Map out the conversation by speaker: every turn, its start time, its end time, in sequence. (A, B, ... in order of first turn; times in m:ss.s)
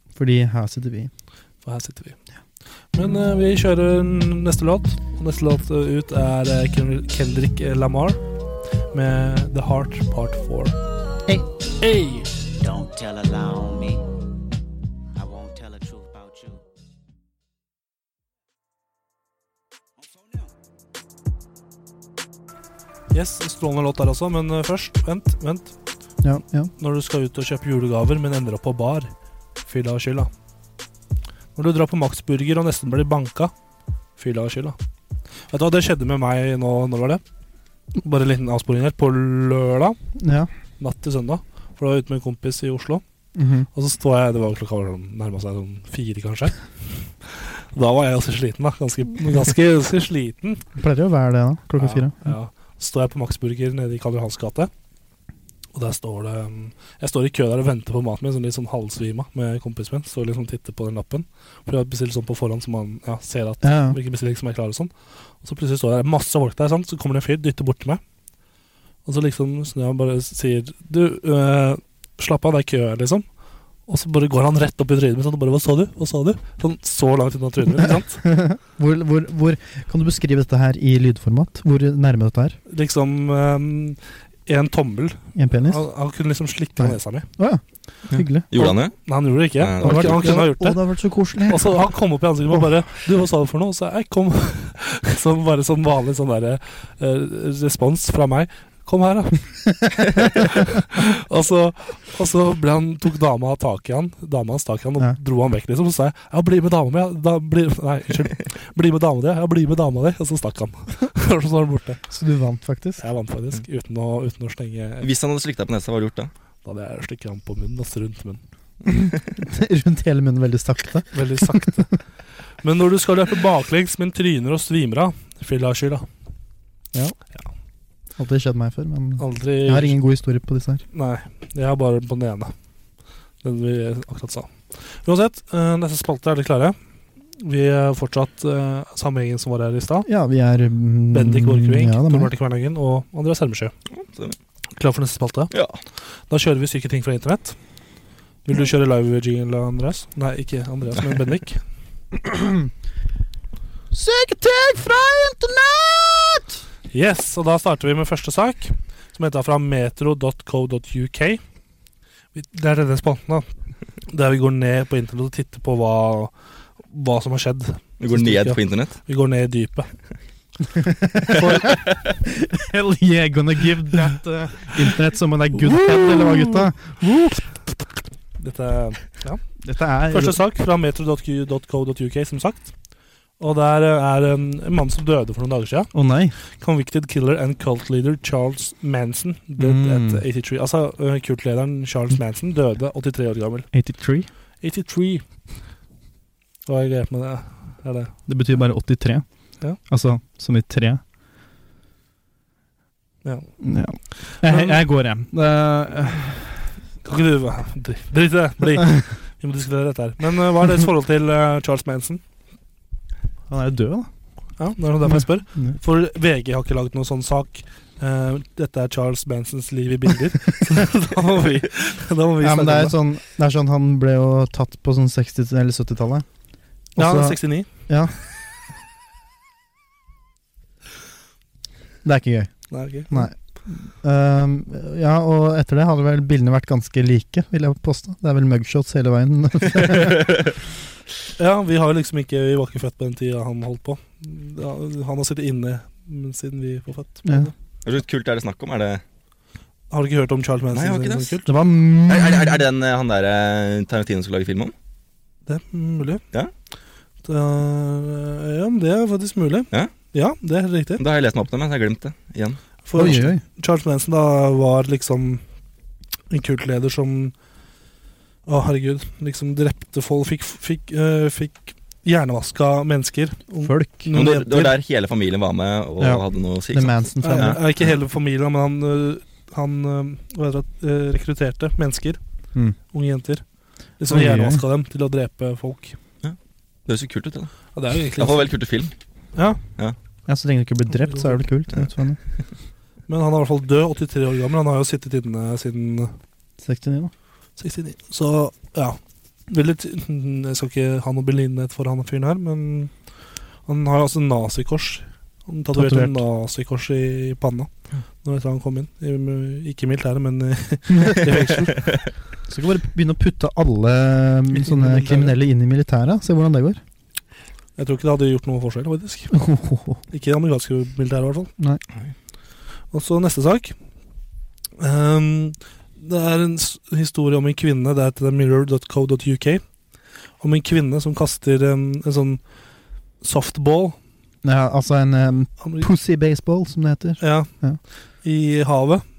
0:00.2-0:01.1 A
0:01.6-0:02.2 B
0:02.9-0:08.2 B
0:08.9-0:10.8 B
0:11.8-0:12.3 B
0:12.6-0:14.1 C
0:15.1-0:16.6 C
0:20.1-0:20.4 C
0:23.1-0:25.8 B
0:26.2-0:26.7 A
0:26.8-0:29.1 B
0:29.6-0:30.3 B
0:31.6-0:33.5 B
0:34.2-0:34.8 B
0:35.5-0:37.2 B
0:38.0-0:40.0 B
0:40.2-0:40.5 A
0:40.8-0:43.0 B
0:43.4-0:43.7 A
0:43.7-0:50.6 B
0:50.8-0:52.2 A
0:51.8-0:54.7 B
0:55.8-1:08.0 B
1:03.6-1:04.0 A
1:09.0-1:13.2 B
1:13.9-1:18.3 B
1:17.8-1:22.6 A
1:22.7-1:27.3 B
1:25.4-1:25.9 A
1:26.8-1:28.8 A
1:28.1-1:30.4 D
1:29.0-1:30.8 B
1:29.8-1:31.9 A
1:31.5-1:52.0 B
1:52.1-1:53.0 A
1:53.0-1:55.1 B
1:55.0-1:56.3 D
1:56.6-1:58.4 B
1:58.8-2:01.7 A
2:01.1-2:02.0 B
2:02.6-2:06.1 B
2:08.2-2:10.8 A
2:09.2-2:10.0 B
2:10.9-2:12.5 B
2:13.4-2:16.8 B
2:17.4-2:20.1 B
2:20.0-2:22.3 A
2:21.1-2:23.7 B
2:23.9-2:24.4 D
2:24.8-2:25.5 B
2:25.5-2:25.8 D
2:26.3-2:27.6 B
2:28.4-2:31.6 B
2:32.1-2:32.7 A
2:33.9-2:36.6 A
2:36.9-2:41.4 B
2:42.4-2:43.5 B
2:44.1-2:46.3 B
2:46.9-2:49.9 B
2:48.0-2:49.0 D
2:50.7-2:51.8 A
2:51.4-2:51.8 B
2:52.4-2:57.7 A
2:55.7-2:56.6 B
2:58.4-2:59.4 B
2:59.6-3:00.4 A
3:00.1-3:02.7 B
3:03.4-3:05.9 B
3:05.9-3:06.4 A
3:06.5-3:13.7 B
3:09.6-3:10.2 A
3:13.7-3:14.3 A
3:14.6-3:15.2 B
3:16.7-3:18.1 B
3:18.3-3:21.0 A
3:23.2-3:23.6 B
3:23.6-3:26.7 A
3:24.3-3:24.8 B
3:27.0-3:32.2 B
3:33.5-3:34.1 A
3:34.6-3:43.0 B
3:35.1-3:35.8 A
3:42.4-3:46.3 A
3:47.0-3:48.2 A
3:47.0-3:47.7 B
3:52.0-4:00.4 A
3:52.7-3:53.3 B
4:01.4-4:07.5 B
4:07.2-4:07.5 A
4:07.8-4:09.0 D
4:09.9-4:11.5 B
4:10.7-4:11.4 D
4:11.5-4:12.6 A
4:12.1-4:14.7 D
4:15.5-4:16.2 B
4:17.2-4:21.0 B
4:21.0-4:22.6 D
4:22.9-4:25.4 B
4:23.0-4:23.4 A
4:26.3-4:27.3 B
4:28.5-4:34.7 B
4:33.6-4:34.1 A
4:34.1-4:37.6 D
4:36.0-4:37.6 A
4:37.2-4:42.2 B
4:42.9-4:43.4 B
4:44.0-4:46.0 B
4:44.1-4:44.6 A
4:46.2-4:48.9 D
4:47.7-4:48.5 B
4:49.3-4:49.6 B
4:50.3-4:52.2 A
4:51.0-4:51.4 B
4:53.1-4:56.1 B
4:56.6-4:57.1 A
4:57.6-5:02.9 B
5:03.7-5:07.7 B
5:05.7-5:06.2 A
5:08.2-5:11.9 B
5:12.5-5:16.8 A
5:14.5-5:15.3 B
5:17.8-5:19.4 B
5:19.3-5:20.0 A
5:20.1-5:21.5 B
5:22.9-5:23.8 B
5:24.8-5:29.6 B
5:30.4-5:32.4 B
5:33.2-5:34.0 B
5:34.4-5:37.8 A
5:35.6-5:35.9 B
5:37.2-5:39.1 B